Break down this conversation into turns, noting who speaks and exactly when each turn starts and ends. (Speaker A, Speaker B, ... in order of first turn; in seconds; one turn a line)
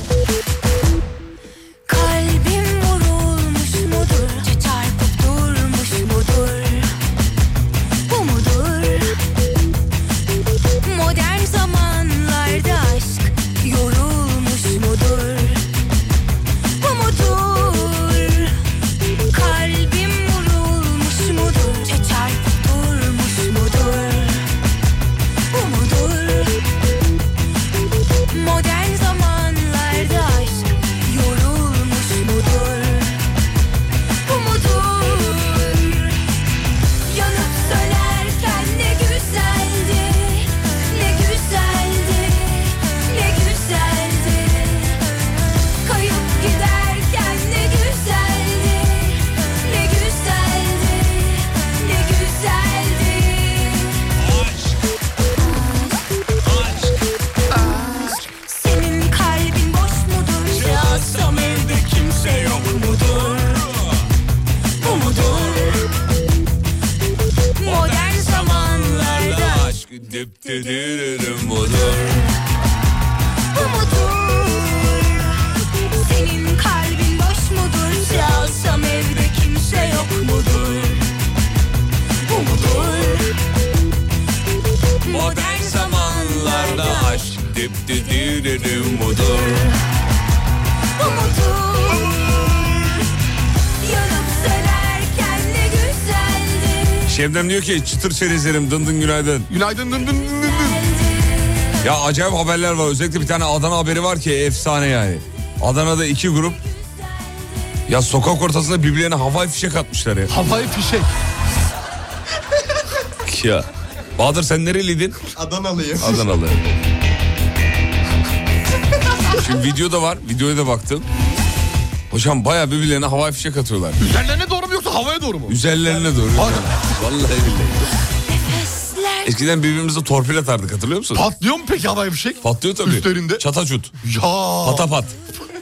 Speaker A: 1.9-6.9
Speaker A: 8.1-9.2
Speaker A: 10.8-15.6
Speaker A: 16.8-18.5
Speaker A: 19.3-24.4
Speaker A: 25.5-26.6
Speaker A: 28.3-33.2
Speaker A: 34.3-36.2
Speaker A: 37.1-45.0
Speaker A: 45.8-54.1
Speaker B: 54.2-54.8
Speaker A: 55.4-55.9
Speaker B: 56.5-57.0
Speaker A: 57.6-63.6
Speaker B: 60.5-64.1
Speaker B: 64.8-65.8
Speaker A: 64.8-65.9
Speaker A: 67.6-69.7
Speaker B: 67.6-72.2
Speaker A: 73.5-75.3
Speaker A: 75.9-81.0
Speaker A: 82.2-83.3
Speaker A: 85.1-87.3
Speaker B: 85.1-89.7
Speaker A: 88.0-89.7
Speaker A: 91.0-93.0
Speaker A: 93.8-97.2
Speaker B: 97.1-99.5
Speaker C: 99.5-100.8
Speaker A: 101.0-101.7
Speaker B: 101.8-106.6
Speaker B: 107.9-110.3
Speaker C: 110.3-111.1
Speaker B: 113.2-115.2
Speaker C: 115.4-116.3
Speaker B: 116.0-116.6
Speaker B: 119.3-121.1
Speaker B: 122.1-124.0
Speaker C: 124.0-125.6
Speaker B: 125.5-127.9
Speaker C: 126.3-126.7
Speaker A: 128.3-129.4
Speaker B: 129.2-131.2
Speaker C: 131.1-133.4
Speaker B: 132.4-133.9
Speaker C: 134.0-134.9
Speaker B: 134.6-135.1